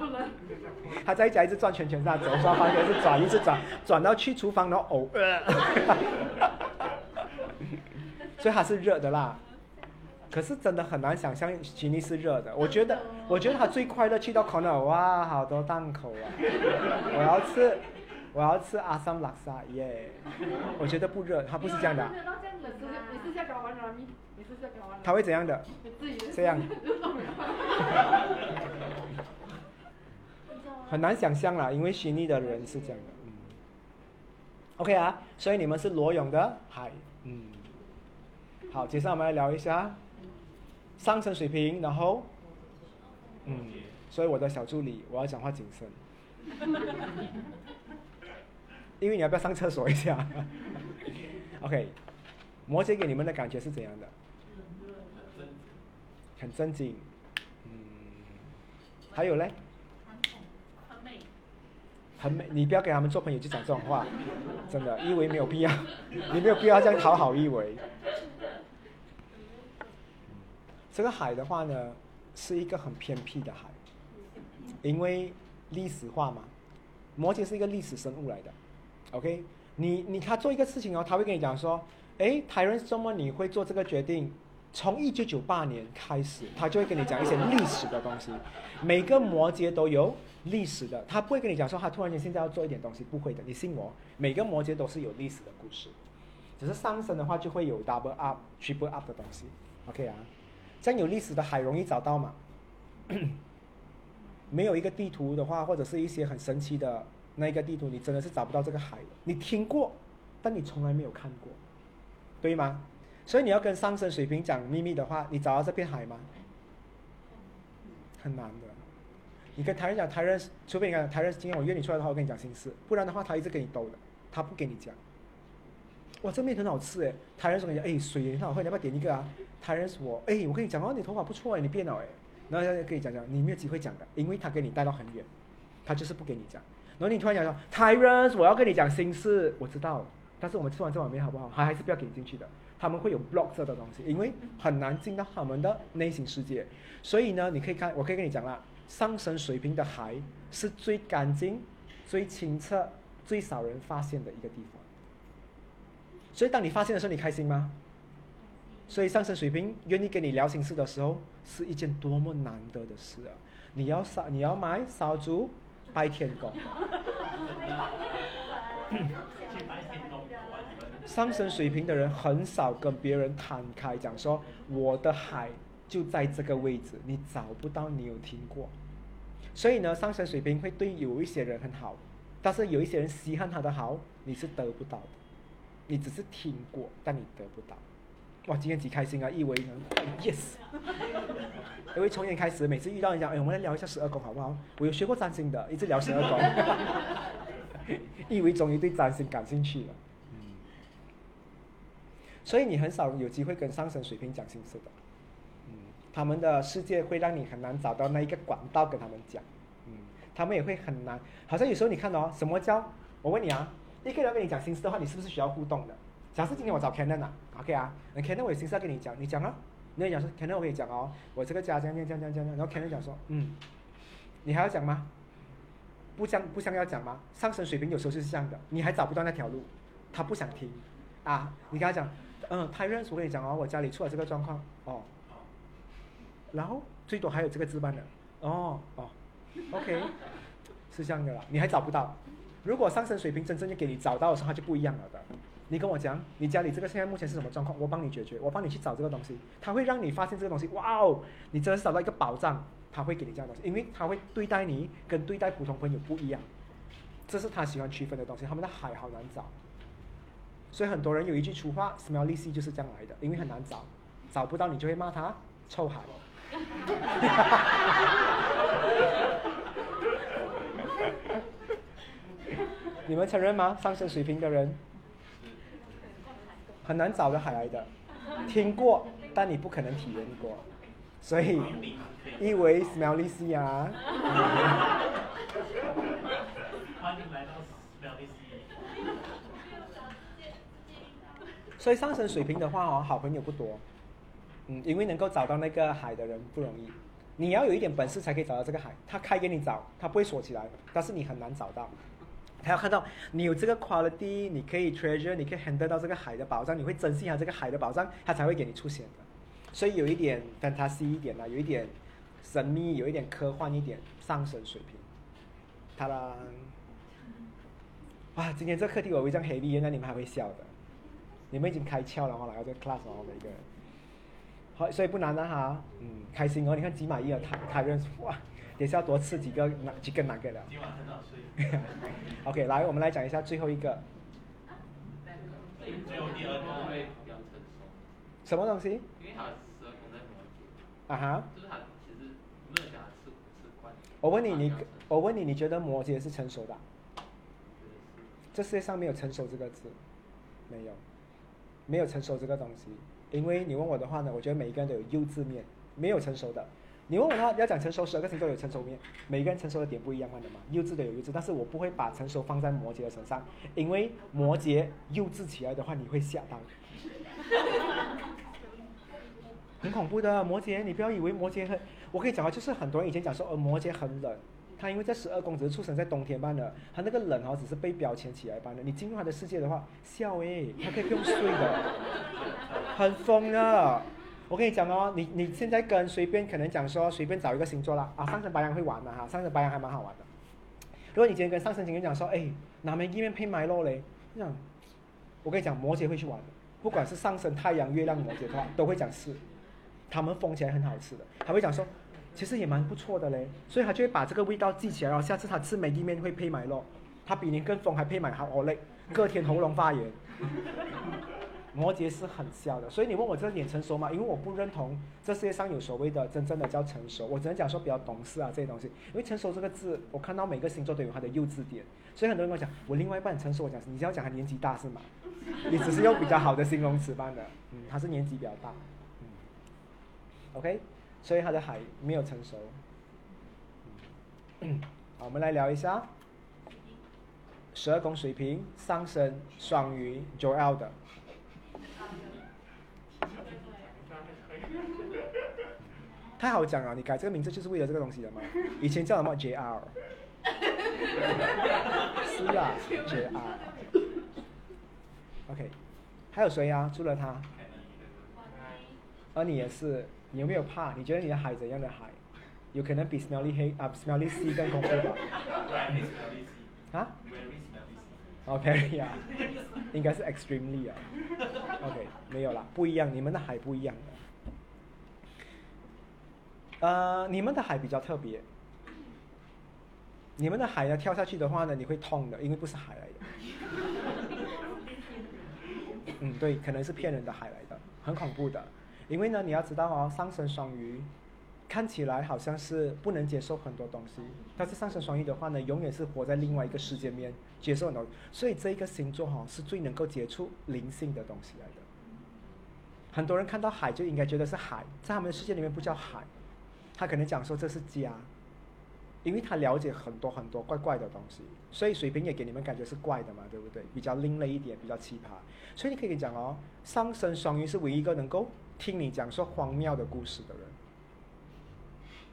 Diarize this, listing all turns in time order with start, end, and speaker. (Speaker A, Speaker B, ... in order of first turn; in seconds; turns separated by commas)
Speaker A: 0.8-6.4, Speaker A: 8.4-9.4, Speaker A: 10.3-22.1, Speaker B: 21.6-23.4, Speaker A: 25.0-25.7, Speaker A: 26.2-26.7, Speaker B: 30.5-31.0, Speaker A: 30.9-33.5, Speaker A: 34.8-37.6, Speaker A: 38.7-40.0, Speaker A: 41.0-42.3, Speaker A: 43.4-46.0, Speaker C: 43.5-43.9, Speaker A: 49.0-51.9, Speaker A: 52.7-54.1, Speaker C: 55.1-55.8, Speaker A: 56.4-57.1, Speaker A: 57.6-58.4, Speaker A: 59.1-59.5, Speaker B: 60.0-61.3, Speaker A: 62.2-64.1, Speaker A: 64.7-67.8, Speaker A: 70.9-73.8, Speaker A: 74.8-76.5, Speaker A: 77.2-78.5, Speaker A: 79.1-95.9, Speaker A: 96.6-100.3, Speaker A: 100.8-102.4, Speaker A: 103.1-103.4, Speaker A: 104.5-111.6, Speaker A: 112.4-116.3, Speaker A: 118.2-118.8, Speaker A: 119.5-125.0, Speaker A: 126.2-135.3, Speaker A: 135.8-154.8, Speaker A: 156.3-157.7, Speaker A: 158.9-166.6, Speaker C: 167.3-168.3, Speaker B: 168.9-169.2, Speaker C: 169.3-171.1, Speaker A: 171.0-178.7, Speaker A: 179.5-185.2, Speaker A: 185.9-187.8, Speaker A: 188.4-190.8, Speaker A: 191.9-197.1, Speaker A: 197.8-200.4, Speaker A: 202.4-204.9, Speaker A: 205.7-223.6, Speaker A: 224.4-225.1, Speaker A: 226.2-235.1, Speaker A: 236.5-239.1, Speaker A: 239.7-240.2, Speaker A: 240.9-256.5, Speaker A: 257.3-259.5, Speaker A: 260.7-266.1, Speaker A: 267.2-267.8, Speaker A: 273.0-274.8, Speaker A: 276.8-277.9, Speaker A: 278.4-280.6, Speaker A: 281.2-281.8, Speaker C: 281.6-282.8, Speaker A: 282.4-284.8, Speaker C: 286.9-288.7, Speaker B: 289.6-291.4, Speaker A: 291.8-293.8, Speaker A: 294.7-301.9, Speaker A: 302.6-315.0, Speaker A: 316.0-316.7, Speaker A: 318.3-320.7, Speaker A: 321.5-323.6, Speaker A: 324.8-330.7, Speaker C: 330.7-332.2, Speaker A: 331.6-334.0, Speaker B: 335.5-336.5, Speaker D: 335.8-338.1, Speaker C: 335.9-337.1, Speaker A: 338.4-339.1, Speaker D: 339.1-340.8, Speaker A: 341.1-341.5, Speaker D: 341.5-345.1, Speaker A: 344.2-346.8, Speaker D: 347.7-348.3, Speaker A: 348.5-350.0, Speaker A: 350.7-351.0, Speaker A: 351.9-366.7, Speaker A: 369.8-382.0, Speaker C: 382.2-382.9, Speaker A: 382.9-390.3, Speaker A: 391.1-394.6, Speaker A: 395.4-399.4, Speaker A: 400.1-410.2, Speaker A: 411.7-428.8, Speaker A: 430.5-432.8, Speaker A: 434.6-436.1, Speaker A: 437.7-440.9, Speaker B: 441.9-442.4, Speaker B: 443.2-444.1, Speaker A: 446.4-449.9, Speaker A: 452.1-453.9, Speaker A: 455.5-455.7, Speaker A: 456.3-457.5, Speaker C: 457.5-458.4, Speaker B: 458.3-458.9, Speaker A: 459.3-462.2, Speaker A: 462.7-465.4, Speaker C: 465.4-468.4, Speaker A: 468.4-469.4, Speaker A: 469.9-471.1, Speaker A: 471.8-474.2, Speaker A: 476.8-478.4, Speaker A: 480.4-483.2, Speaker B: 484.4-485.2, Speaker A: 486.2-491.1, Speaker A: 491.7-501.8, Speaker A: 503.1-506.3, Speaker A: 506.9-508.3, Speaker A: 509.2-520.7